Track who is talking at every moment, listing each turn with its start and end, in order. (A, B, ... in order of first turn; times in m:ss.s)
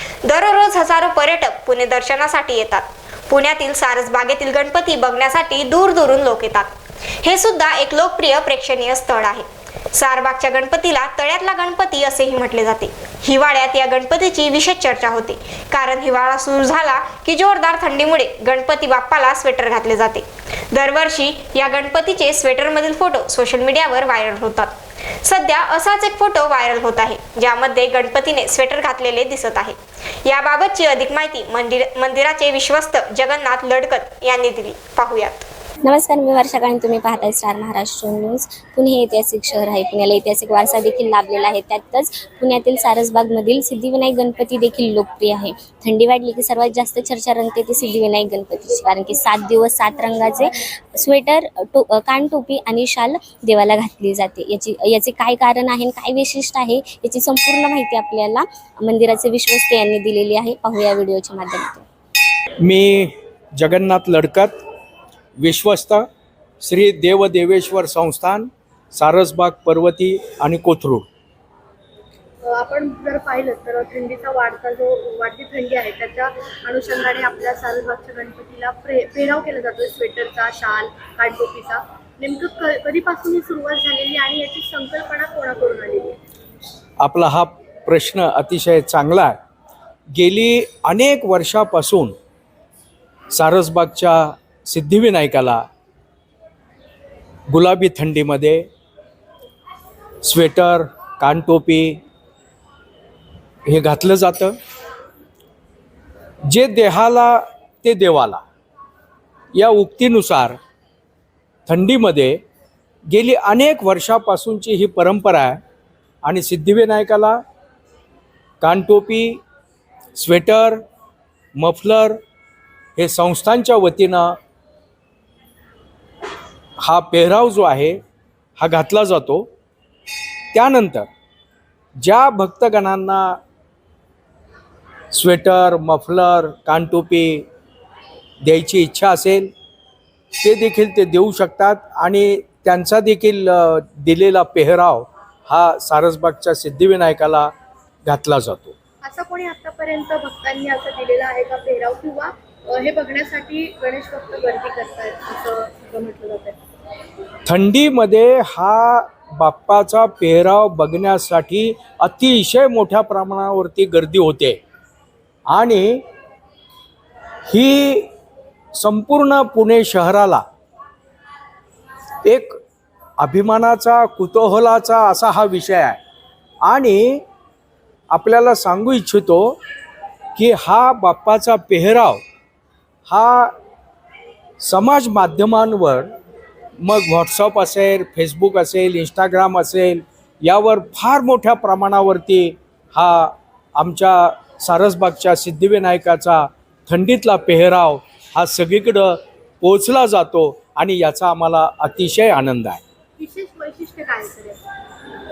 0:00.2-0:06.7 A
0:07.2-0:24.7 A
0:25.2-0:35.5 A
0:35.8-1:01.9 B
1:02.6-1:04.6 C
1:05.4-1:06.0 C
1:06.6-1:11.1 C
1:12.4-1:26.2 D
1:27.0-1:29.4 C
1:30.1-1:32.2 C
1:33.3-1:35.6 C
1:37.5-1:38.7 C
1:40.2-1:42.0 C
1:43.7-1:44.5 C
1:46.5-1:48.4 C
1:49.5-1:50.6 C
1:51.7-1:52.4 C
1:53.1-1:55.6 C
1:56.2-1:57.4 C
1:58.6-1:59.4 C
2:00.2-2:00.8 C
2:01.6-2:02.2 C
2:03.0-2:04.3 C
2:06.8-2:08.0 C
2:08.6-2:09.5 C
2:10.5-2:11.1 C
2:12.0-2:13.4 C
2:15.1-2:17.5 C
2:18.4-2:19.5 C
2:20.4-2:27.5 C
2:28.1-2:28.8 C
2:29.0-2:36.6 D
2:37.5-2:44.6 C
2:45.5-2:46.0 C
2:47.5-2:48.1 C
2:48.8-2:50.4 C
2:52.2-2:52.6 C
2:53.2-2:56.0 C
2:56.6-2:57.2 C
2:58.1-2:59.6 C
3:00.4-3:02.2 C
3:03.1-3:03.6 C
3:04.6-3:06.1 C
3:06.8-3:22.8 C
3:23.2-3:24.6 D